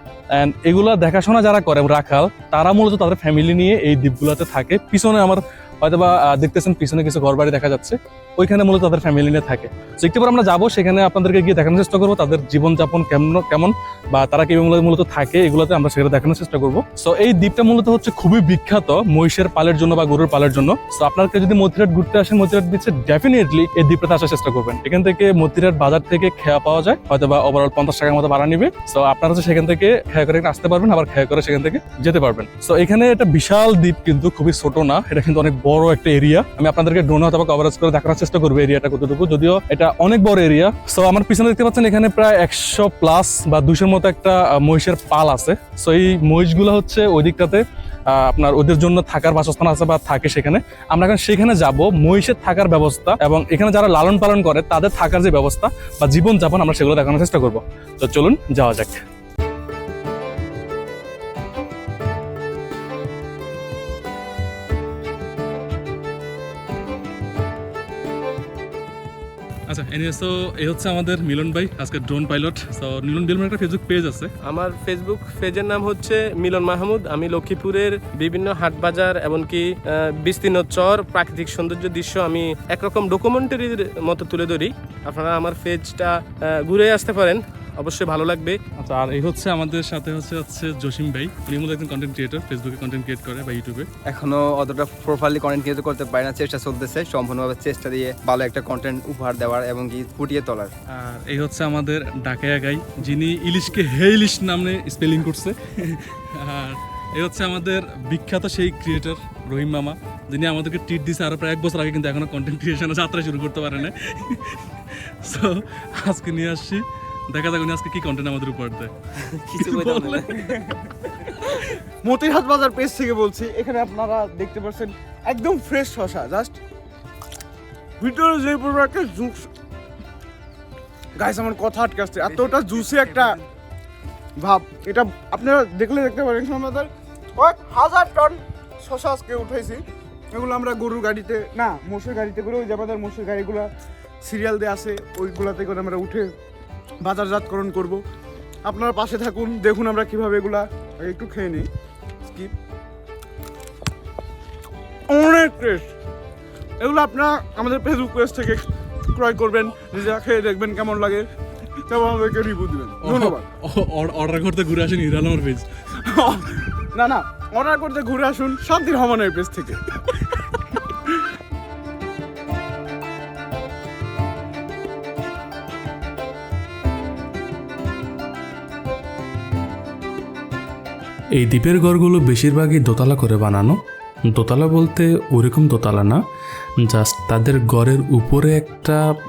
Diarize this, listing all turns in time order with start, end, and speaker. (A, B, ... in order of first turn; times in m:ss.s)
0:00.4-0:59.0 A
1:09.7-1:14.3 A
1:14.4-1:28.6 B
1:28.8-1:33.9 A
1:34.0-1:40.7 C
1:40.9-2:00.5 A
2:00.3-2:00.8 D
2:01.4-2:01.7 A
2:02.0-2:06.6 D
2:08.0-2:09.5 D
2:11.2-2:13.4 D
2:14.4-2:23.7 D
2:24.2-2:26.3 D
2:27.0-2:28.0 D
2:28.6-2:31.7 D
2:32.3-2:32.5 D
2:35.1-2:35.9 D
2:36.8-2:38.6 D
2:39.1-2:41.3 D
2:41.8-2:43.5 D
2:43.0-2:45.7 A
2:46.0-2:49.9 D
3:01.4-3:03.8 E
3:04.3-3:06.2 E
3:06.8-3:09.0 E